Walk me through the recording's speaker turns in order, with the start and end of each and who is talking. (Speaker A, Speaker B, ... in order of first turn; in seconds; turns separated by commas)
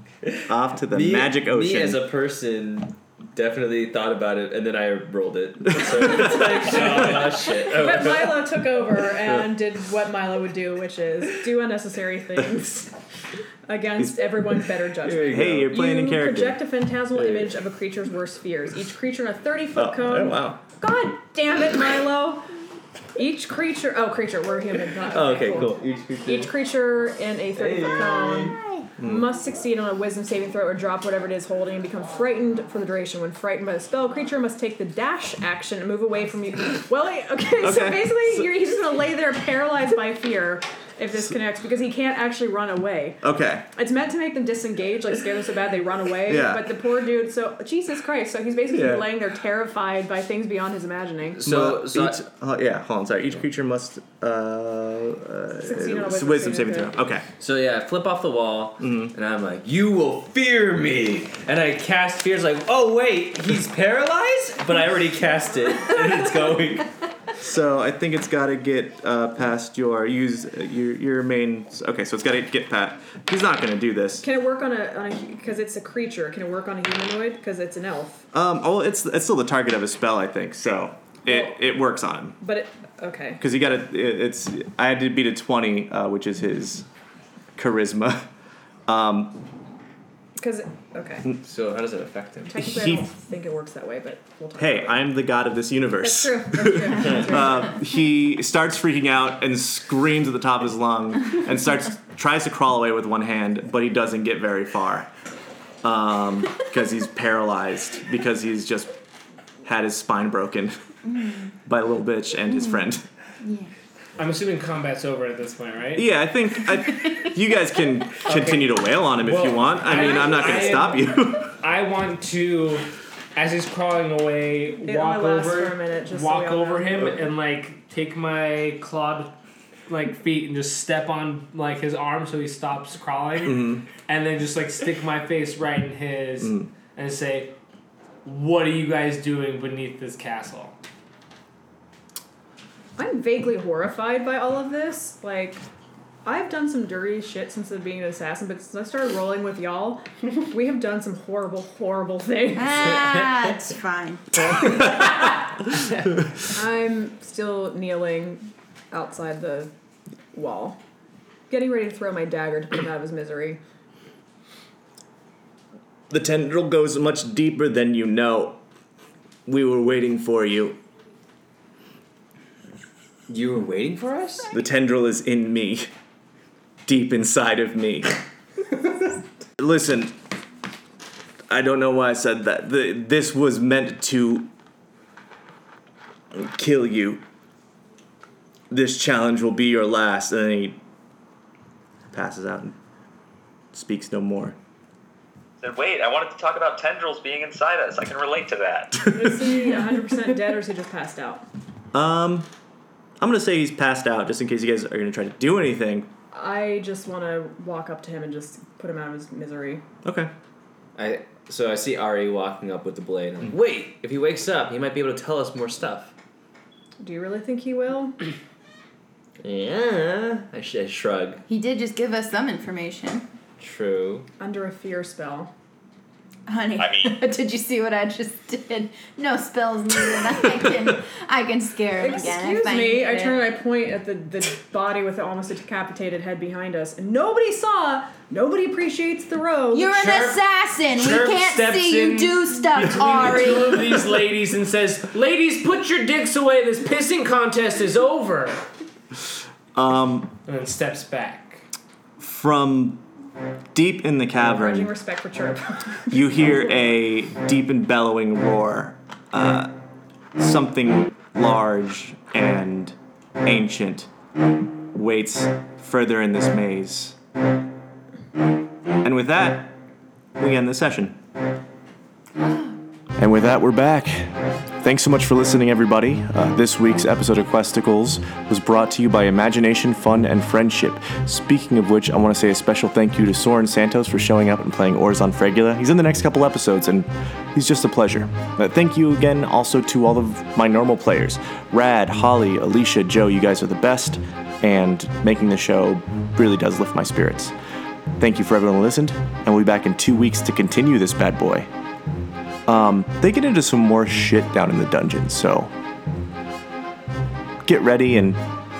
Speaker A: 0.2-9.5, Speaker B: 0.5-2.1, Speaker B: 5.8-6.4, Speaker C: 6.2-13.0, Speaker D: 6.8-7.3, Speaker C: 13.7-22.5, Speaker B: 14.0-14.4, Speaker A: 15.0-15.7, Speaker B: 15.3-16.6, Speaker A: 17.1-17.6, Speaker B: 19.8-20.6, Speaker C: 23.1-51.4, Speaker A: 25.0-26.6, Speaker A: 27.6-28.6, Speaker B: 29.0-29.3, Speaker B: 37.6-38.5, Speaker B: 43.2-43.7, Speaker B: 46.2-46.8, Speaker B: 48.7-49.2, Speaker A: 51.3-52.2, Speaker B: 51.4-57.3, Speaker C: 55.6-57.0, Speaker A: 57.4-67.0, Speaker B: 58.8-59.1, Speaker B: 67.4-74.2, Speaker C: 74.2-78.3, Speaker B: 78.3-82.4, Speaker C: 81.3-81.6, Speaker C: 82.4-83.4, Speaker B: 83.4-86.9, Speaker B: 87.6-88.2, Speaker B: 88.9-89.4, Speaker C: 90.4-91.3, Speaker A: 91.4-92.6, Speaker C: 92.5-95.1, Speaker B: 92.6-93.1, Speaker B: 94.6-105.1, Speaker C: 96.0-97.8, Speaker B: 105.8-108.9, Speaker B: 109.6-110.8, Speaker E: 111.2-111.4, Speaker B: 111.6-113.0, Speaker E: 112.5-112.8, Speaker E: 113.4-113.7, Speaker D: 114.2-116.1, Speaker B: 116.0-121.6, Speaker D: 118.2-129.3, Speaker C: 124.8-127.2, Speaker D: 129.9-137.5, Speaker B: 133.4-133.8, Speaker B: 136.4-136.7, Speaker D: 138.2-140.8, Speaker C: 143.0-145.6, Speaker C: 146.2-152.9, Speaker E: 152.5-155.0, Speaker D: 154.5-156.2, Speaker C: 156.5-159.7, Speaker C: 160.3-160.8, Speaker C: 161.5-163.6, Speaker B: 166.1-168.6, Speaker B: 169.5-170.8, Speaker A: 173.3-174.5, Speaker B: 174.5-175.9, Speaker B: 176.9-178.1, Speaker B: 179.6-180.2, Speaker B: 181.5-184.5, Speaker B: 186.3-187.2, Speaker B: 188.7-190.8, Speaker B: 192.1-192.8, Speaker B: 193.7-194.6, Speaker F: 195.6-199.1, Speaker C: 199.0-201.5, Speaker B: 201.9-202.5, Speaker B: 203.2-206.1, Speaker C: 206.3-209.8, Speaker B: 210.0-210.3, Speaker A: 211.0-216.1, Speaker C: 217.0-218.2, Speaker A: 219.4-221.4, Speaker E: 221.5-223.3, Speaker A: 223.6-224.3, Speaker C: 224.4-225.5, Speaker E: 226.5-233.4, Speaker F: 226.8-227.2, Speaker C: 232.0-239.9, Speaker E: 239.7-244.1, Speaker D: 239.9-248.7, Speaker B: 249.8-250.4, Speaker D: 250.5-251.7, Speaker B: 252.2-253.1, Speaker B: 253.7-254.9, Speaker C: 254.4-256.2, Speaker B: 256.1-259.7, Speaker B: 260.4-264.1, Speaker B: 264.9-267.2, Speaker B: 269.0-269.8, Speaker B: 270.4-271.2, Speaker B: 273.2-297.6, Speaker B: 298.2-301.7, Speaker B: 302.7-305.7, Speaker B: 307.6-308.4